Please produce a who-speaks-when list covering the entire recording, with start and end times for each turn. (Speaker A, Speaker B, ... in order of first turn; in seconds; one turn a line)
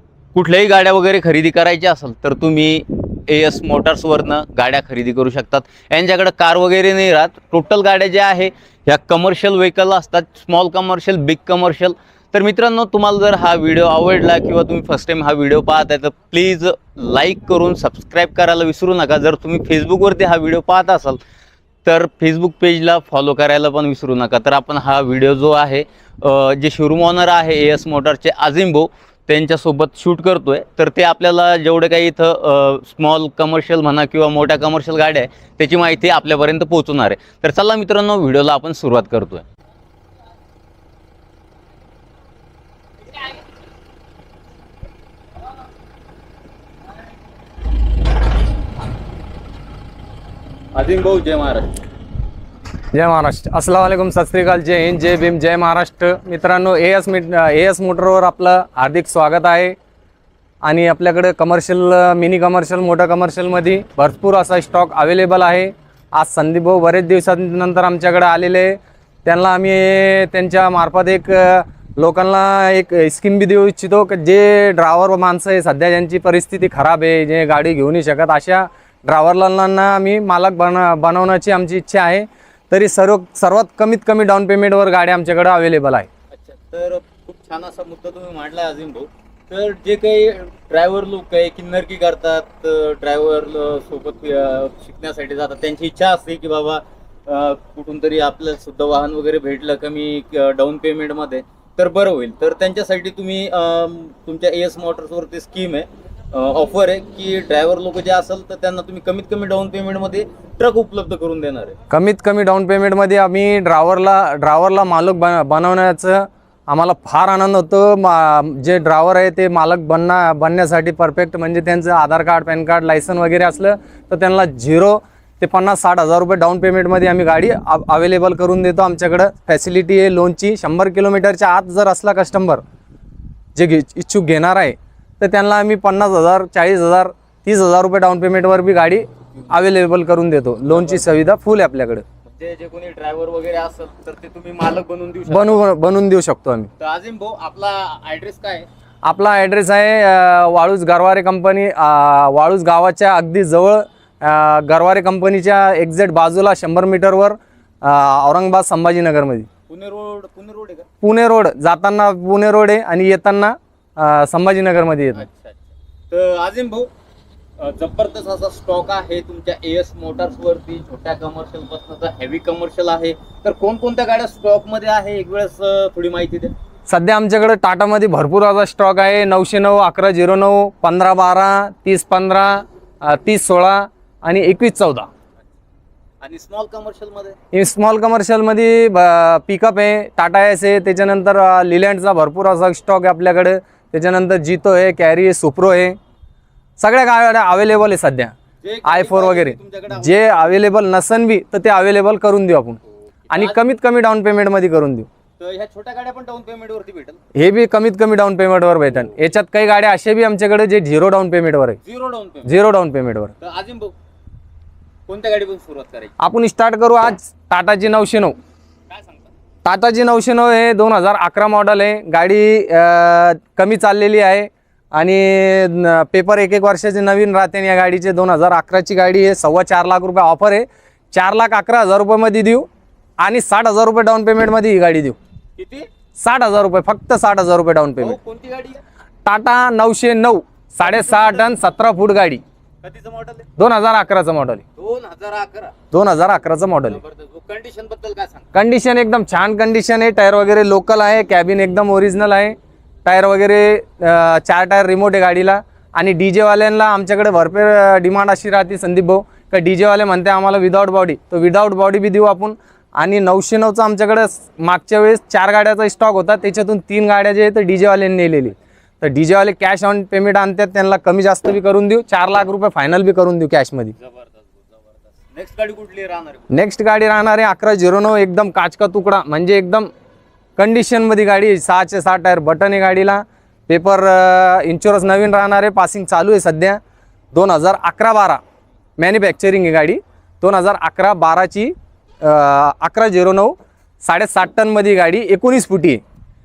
Speaker A: 0.3-21.2
Speaker A: 21.9-39.5
Speaker A: 50.8-51.7
Speaker B: 52.9-59.8
Speaker B: 60.6-86.1
Speaker A: 86.3-111.8
Speaker B: 111.9-132.6
Speaker B: 133.6-142.0
Speaker A: 140.7-141.1
Speaker A: 142.2-145.6
Speaker B: 145.3-146.7
Speaker A: 146.8-148.7
Speaker B: 149.0-159.5
Speaker A: 159.7-160.9
Speaker B: 161.0-165.3
Speaker A: 165.2-166.9
Speaker A: 167.6-176.5
Speaker B: 176.9-185.1
Speaker A: 186.2-187.4
Speaker B: 187.5-196.0
Speaker B: 196.8-198.3
Speaker A: 198.6-200.6
Speaker B: 198.8-202.8
Speaker A: 203.3-203.6
Speaker B: 203.3-205.1
Speaker A: 205.4-207.2
Speaker B: 207.3-211.8
Speaker A: 211.8-212.5
Speaker B: 212.4-213.3
Speaker A: 213.4-213.9
Speaker A: 215.1-216.1
Speaker B: 216.2-218.4
Speaker A: 218.9-219.3
Speaker B: 219.6-232.7
Speaker B: 233.2-235.2
Speaker A: 235.6-235.9
Speaker B: 236.2-238.2
Speaker A: 238.0-238.8
Speaker B: 239.2-242.4
Speaker A: 240.8-241.5
Speaker A: 242.8-243.5
Speaker B: 243.6-244.6
Speaker A: 244.8-245.8
Speaker B: 245.9-247.0
Speaker A: 246.9-248.5
Speaker B: 248.5-273.9
Speaker A: 274.0-276.5
Speaker B: 276.5-279.9
Speaker B: 280.6-286.8
Speaker B: 287.3-288.4
Speaker B: 289.0-296.0